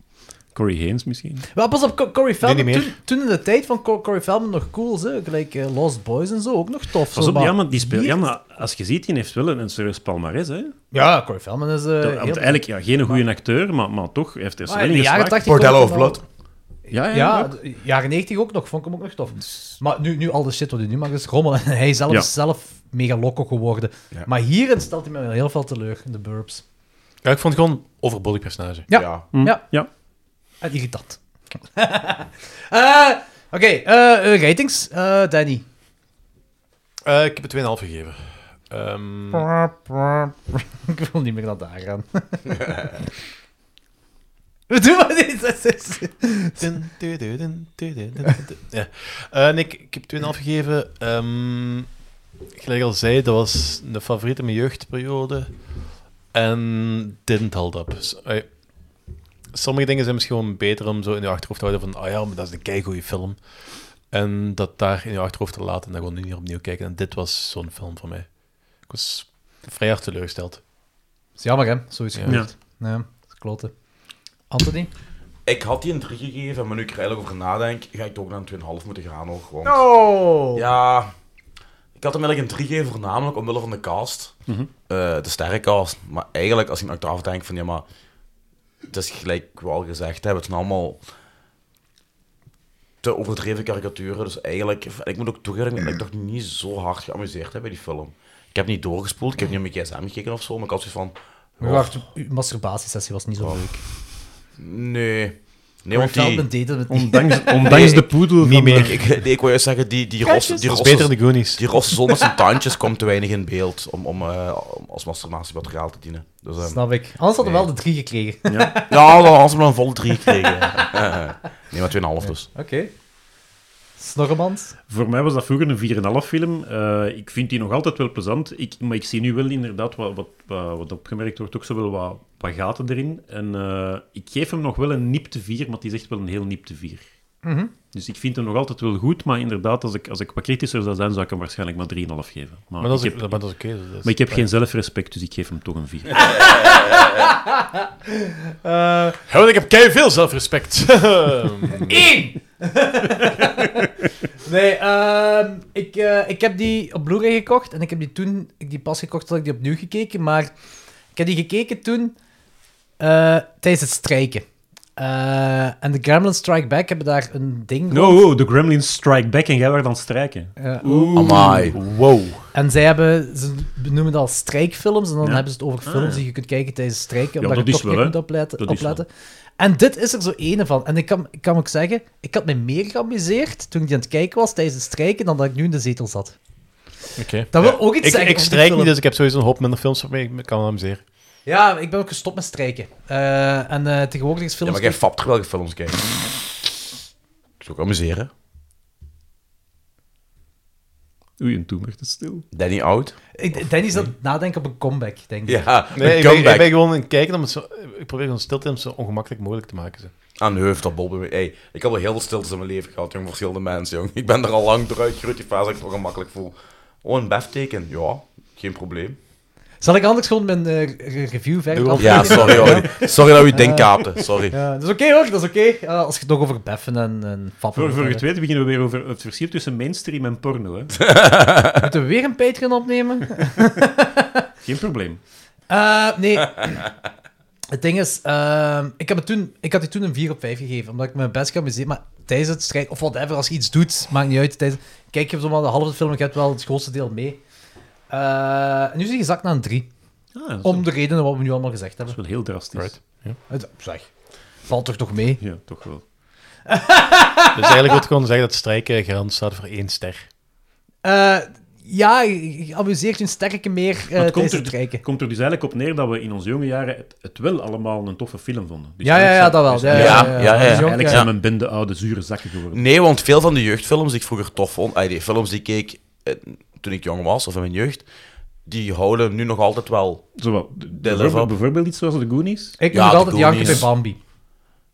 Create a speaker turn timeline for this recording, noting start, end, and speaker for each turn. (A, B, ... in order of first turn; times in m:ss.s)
0:00.5-0:01.5 A
0:01.5-0:08.3 B
0:02.4-0:03.0 C
0:07.1-0:10.7 A
0:10.9-0:13.2 B
0:12.0-0:15.5 A
0:14.7-0:16.2 B
0:15.4-0:16.2 D
0:16.9-0:17.5 A
0:17.0-0:26.6 B
0:27.2-0:28.9 C
0:28.9-0:29.6 B
0:28.9-0:29.3 D
0:29.3-0:29.9 A
0:30.6-0:31.2 B
0:31.7-0:35.6 B
0:37.0-0:39.5 C
0:39.3-0:42.5 B
0:44.7-0:46.6 B
0:46.6-0:51.9 C
0:52.5-0:55.5 C
0:56.3-0:58.5 C
0:59.5-1:03.4 C
1:04.1-1:08.3 C
1:08.9-1:10.6 C
1:11.4-1:13.7 B
1:14.5-1:14.9 B
1:15.5-1:19.9 D
1:19.6-1:20.6 B
1:20.5-1:21.1 D
1:22.0-1:24.3 D
1:24.9-1:27.8 D
1:28.9-1:31.0 D
1:33.0-1:41.9 D
1:41.6-1:43.8 B
1:43.4-1:43.7 D
1:44.6-1:46.5 D
1:45.9-1:48.0 B
1:46.9-1:49.0 A
1:47.6-1:48.1 D
1:48.4-1:49.0 C
1:48.7-1:56.8 D
1:50.2-1:50.7 B
1:50.6-1:51.6 C
1:52.1-1:52.4 B
1:56.6-1:59.2 B
1:57.4-1:57.7 D
1:58.5-1:58.8 A
1:58.9-2:02.5 D
2:00.2-2:00.9 B
2:02.3-2:02.9 B
2:04.0-2:04.8 B
2:04.9-2:17.1 A
2:17.4-2:17.7 B
2:17.9-2:23.4 A
2:22.8-2:24.4 C
2:24.0-2:26.3 A
2:26.1-2:29.2 B
2:29.3-2:32.1 C
2:31.8-2:33.9 B
2:34.4-2:40.5 B
2:41.2-2:42.2 B
2:43.0-2:44.4 B
2:45.0-2:48.3 B
2:47.9-2:52.5 A
2:50.6-2:51.4 B
2:51.1-2:51.8 D
2:51.9-2:52.2 C
2:52.5-2:59.1 B
2:55.2-2:56.2 A
2:57.4-2:59.0 A
2:59.6-3:06.4 B
3:07.2-3:11.0 C
3:07.5-3:08.9 B
3:11.5-3:15.0 B
3:14.6-3:16.1 D
3:17.6-3:18.3 D
3:21.4-3:22.4 A
3:22.5-3:23.2 D
3:23.4-3:25.7 B
3:25.5-3:26.7 D
3:25.9-3:30.1 C
3:30.4-3:39.2 D
3:39.8-3:44.0 B
3:41.7-3:42.9 C
3:42.0-3:44.6 D
3:44.5-3:48.2 B
3:47.8-3:51.0 A
3:51.0-3:51.9 D
3:51.8-3:54.5 B
3:54.6-3:55.2 A
3:55.7-3:56.8 B
3:57.7-4:07.4 B
4:08.1-4:09.9 B
4:10.4-4:10.9 A
4:10.6-4:12.2 B
4:12.1-4:12.9 A
4:12.8-4:13.4 C
4:13.5-4:14.1 B
4:14.7-4:15.4 B
4:15.4-4:16.0 A
4:16.7-4:18.0 B
4:17.5-4:20.3 C
4:21.0-4:25.0 B
4:24.1-4:32.8 A
4:29.0-4:31.3 B
4:29.9-4:31.3 D
4:32.7-4:38.1 D
4:38.6-4:40.3 D
4:40.4-4:42.8 A
4:41.0-4:41.5 D
4:42.8-4:44.2 B
4:42.9-4:43.9 D
4:43.6-4:43.8 A